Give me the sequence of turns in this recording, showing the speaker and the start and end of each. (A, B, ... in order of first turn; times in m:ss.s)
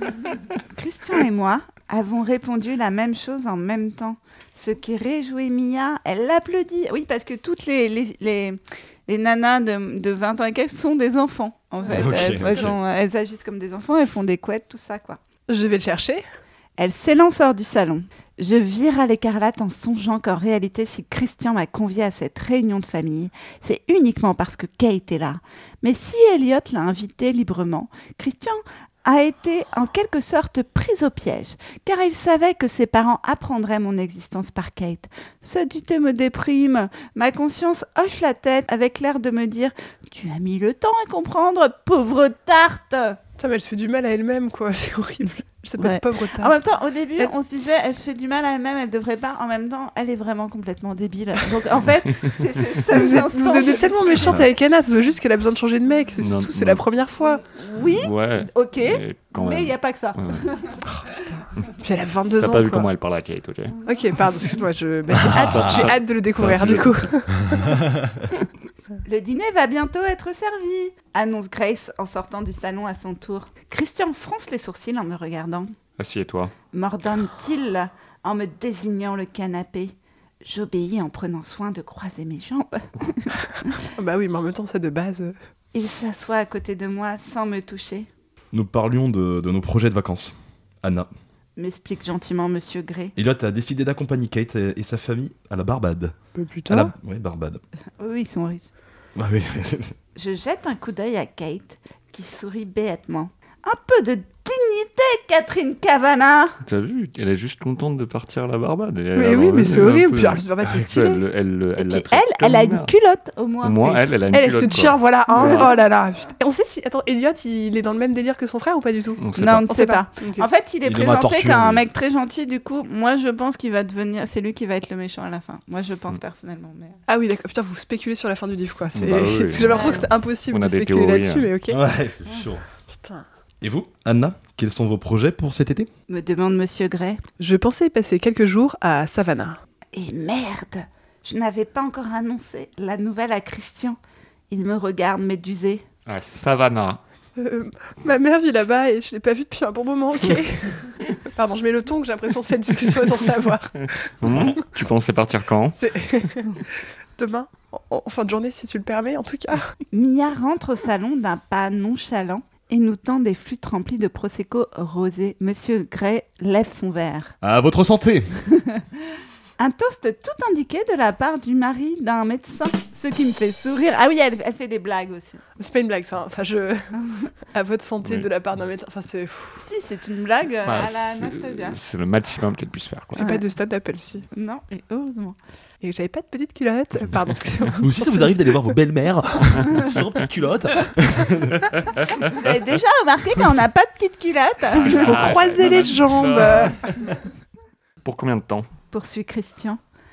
0:00.7-0:15.2 A
0:11.9-0:12.8 B
0:15.5-0:16.2 C
0:16.8-0:43.2 A
0:43.4-0:46.6 C
0:45.8-0:54.4 A
0:52.9-0:57.4 C
0:56.2-0:56.8 D
0:57.6-1:00.8 A
0:58.0-1:00.4 D
1:00.8-1:02.9 C
1:02.4-1:03.8 D
1:03.8-1:07.7 C
1:05.1-1:05.9 B
1:05.4-1:07.2 D
1:09.0-1:15.7 A
1:16.0-1:16.5 D
1:16.7-1:23.7 A
1:24.0-1:25.4 C
1:25.7-1:28.1 A
1:28.5-1:31.1 B
1:31.6-1:33.2 A
1:33.2-1:36.2 B
1:36.4-1:36.9 C
1:36.7-1:37.6 B
1:38.0-1:38.7 A
1:39.2-1:40.0 B
1:40.2-1:46.6 A
1:46.7-1:52.9 D
1:49.2-1:51.2 C
1:51.8-1:54.0 A
1:53.6-1:55.7 D
1:54.3-2:00.5 C
1:59.2-1:59.7 D
1:59.4-2:07.0 A
2:00.8-2:01.8 B
2:07.1-2:11.8 C
2:09.0-2:11.5 D
2:09.7-2:10.1 A
2:11.7-2:12.7 B
2:12.9-2:13.2 C
2:13.6-2:15.9 B
2:16.1-2:17.2 A
2:17.4-2:19.6 C
2:19.9-2:24.0 A
2:24.5-2:25.8 A
2:26.1-2:27.0 D
2:27.4-2:34.7 C
2:34.2-2:35.8 D
2:35.8-2:39.8 C
2:39.9-2:47.4 A
2:47.4-2:48.5 B
2:49.6-2:55.4 A
2:55.6-2:59.6 C
2:59.6-3:01.8 A
3:00.6-3:03.2 D
3:03.2-3:04.3 C
3:03.2-3:03.4 A
3:04.3-3:05.4 A
3:05.8-3:08.4 C
3:07.8-3:11.8 B
3:12.2-3:15.4 A
3:14.7-3:16.8 D
3:14.8-3:17.0 C
3:18.0-3:18.7 D
3:18.9-3:19.8 A